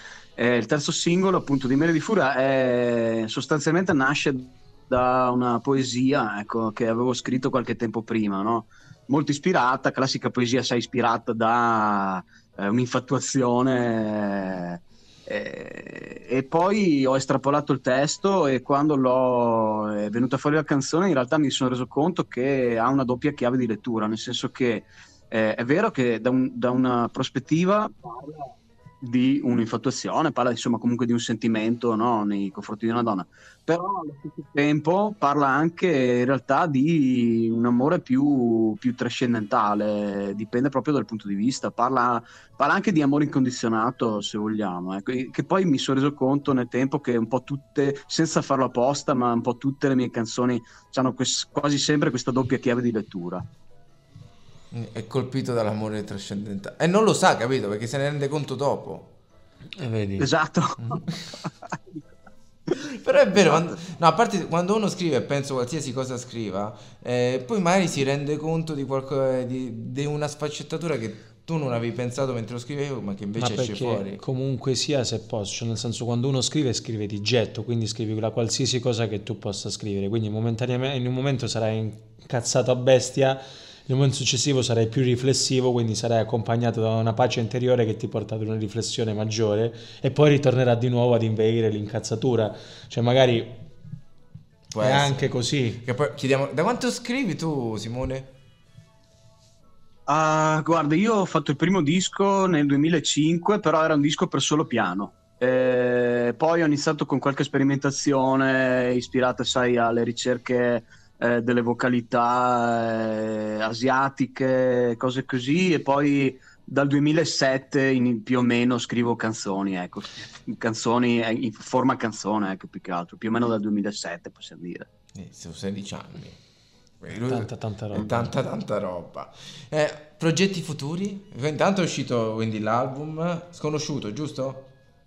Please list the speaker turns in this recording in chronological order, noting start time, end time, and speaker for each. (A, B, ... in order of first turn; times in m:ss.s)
0:00.4-0:53.4 A
0:54.7-0:59.1 B
0:59.8-1:00.3 C
1:00.2-1:01.8 A
1:02.7-1:14.2 B
1:13.4-1:33.6 C
1:34.7-1:35.3 B
1:34.8-1:35.8 C
1:35.8-1:38.3 B
1:40.1-2:04.9 A
2:05.1-2:06.4 B
2:07.0-2:14.7 B
2:07.2-2:08.3 C